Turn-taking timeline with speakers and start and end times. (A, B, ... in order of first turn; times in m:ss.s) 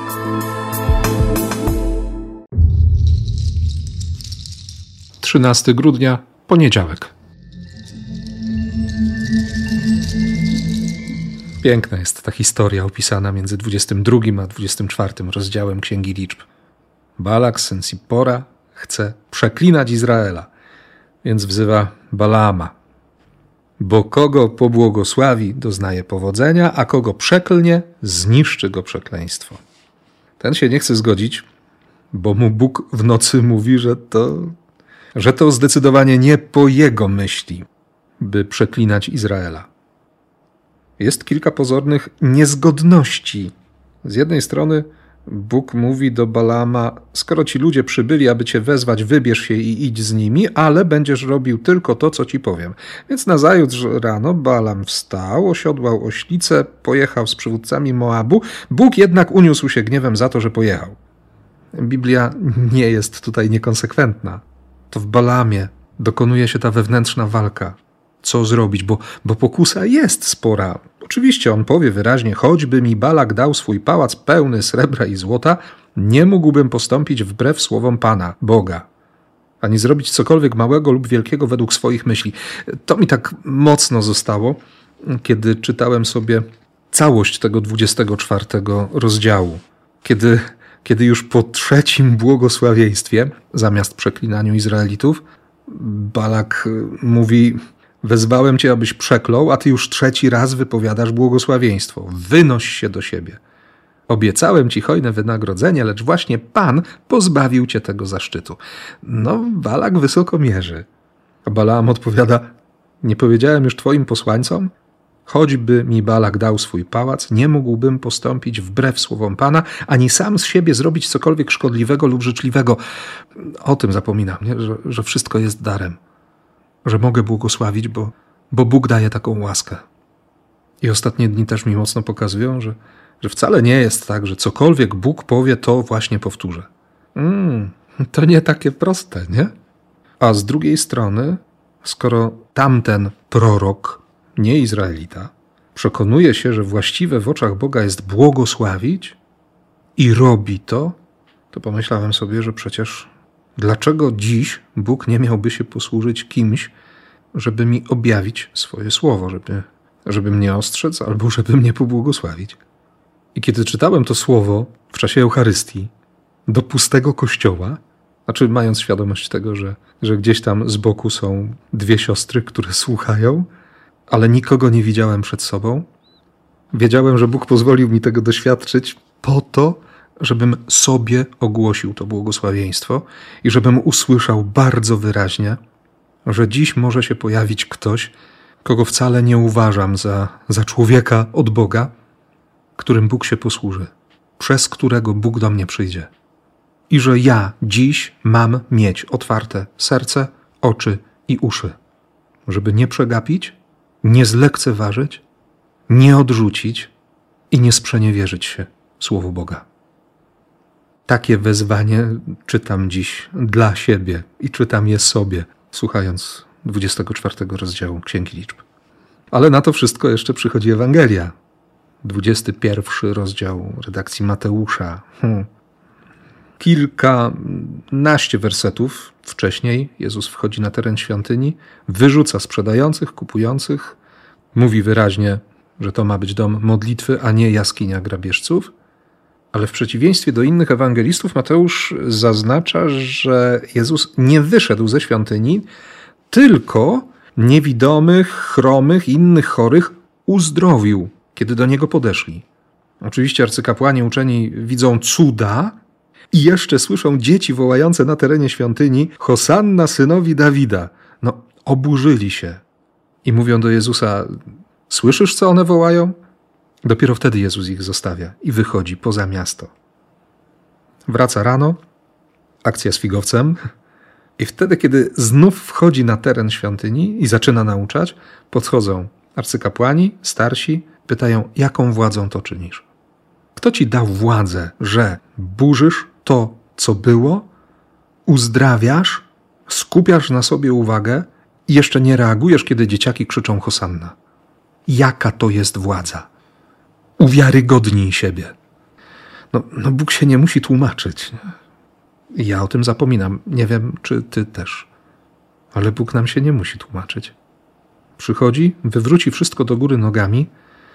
0:05.2-0:07.1 A
0:11.6-0:16.5 A
0:17.2-0:20.5 A
0:21.2-0:22.8 A
0:23.8-0:29.6 A
0:30.4-0:31.4 A
0:32.1-0:34.6 A
0:35.1-0:37.7 A
0:38.2-0:39.7 A
0:41.0-1:01.0 A
1:01.7-1:18.9 A
1:19.6-1:43.4 A
1:44.1-1:50.9 A
1:51.4-1:54.7 A
1:55.3-2:02.8 A
2:03.4-2:06.0 A
2:06.8-2:09.8 A
2:10.8-2:19.5 A
2:20.2-2:29.2 A
2:30.0-2:31.0 A
2:31.5-2:36.7 A
2:37.3-2:42.6 A
2:43.3-2:45.9 A
2:46.5-2:53.5 A
2:54.1-2:55.9 A
2:56.7-3:05.6 A
3:06.2-3:11.9 A
3:12.8-3:16.1 A
3:16.9-3:21.8 A
3:22.5-3:25.2 A
3:25.9-3:26.9 A
3:27.5-3:29.7 A
3:31.1-3:38.6 A
3:39.3-3:41.4 A
3:42.0-3:45.5 A
3:46.6-3:54.0 A
3:54.5-3:58.7 A
3:59.5-4:05.7 A
4:06.3-4:12.4 A
4:13.0-4:15.8 A
4:16.3-4:22.6 A
4:23.2-4:24.4 A
4:24.9-4:26.2 A
4:26.8-4:29.7 A
4:31.1-4:31.8 A
4:32.6-4:33.6 A
4:34.4-4:42.9 A
4:43.6-4:47.5 A
4:48.3-4:54.2 A
4:54.9-4:56.3 A
4:57.2-4:58.5 A
4:59.5-5:01.5 A
5:02.3-5:04.9 A
5:05.7-5:07.4 A
5:08.2-5:10.5 A